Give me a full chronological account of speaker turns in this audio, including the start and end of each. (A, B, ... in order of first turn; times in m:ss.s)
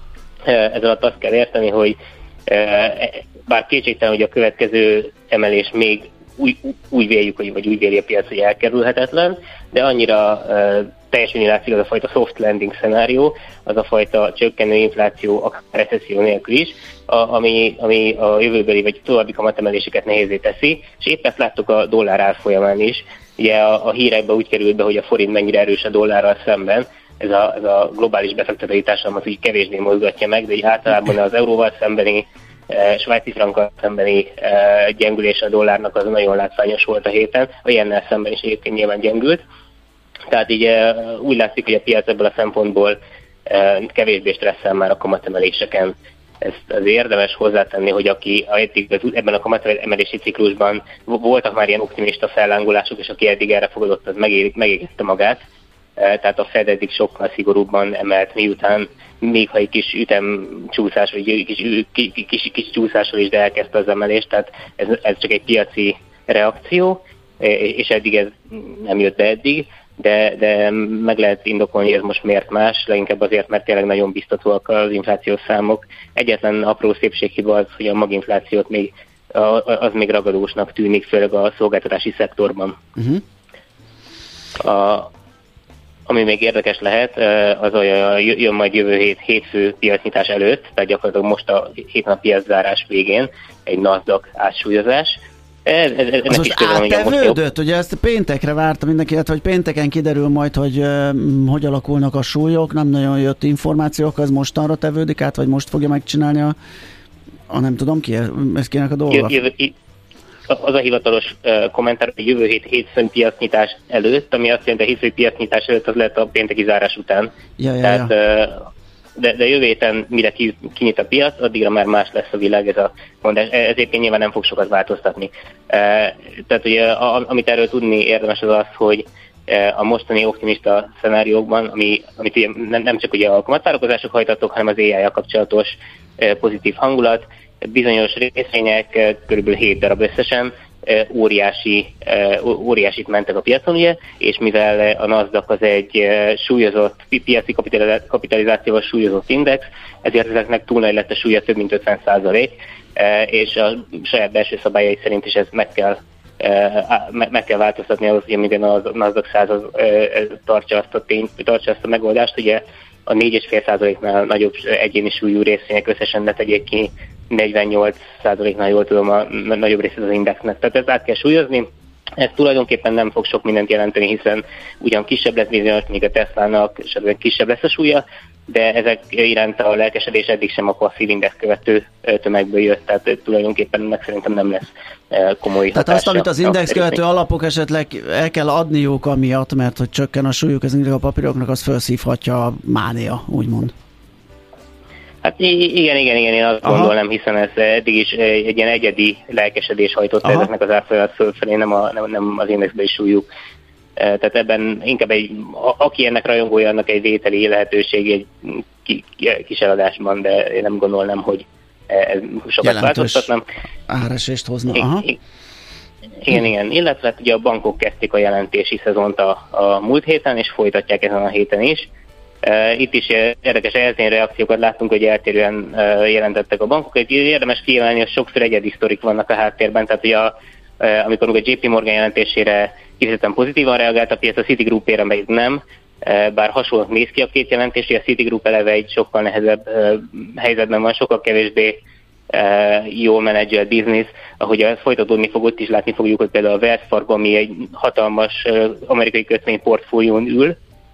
0:00.4-0:39.4 A
0:40.3-0:55.4 A
0:56.0-1:22.8 A
1:23.0-1:23.2 B
1:24.6-1:25.1 A
1:26.1-1:37.4 A
1:36.3-1:46.6 B
1:47.5-1:49.4 B
1:49.1-1:49.7 A
1:50.5-1:57.3 A
1:57.6-1:58.1 B
1:57.8-1:58.6 A
1:59.2-2:51.7 A
2:52.2-3:07.0 A
3:05.7-3:13.7 B
3:15.2-3:23.3 A
3:16.6-3:16.9 B
3:24.0-3:33.4 A
3:32.6-3:33.3 B
3:33.9-3:35.1 B
3:34.7-3:35.1 A
3:36.2-3:41.9 A
3:42.4-4:01.8 A
4:02.3-4:10.6 A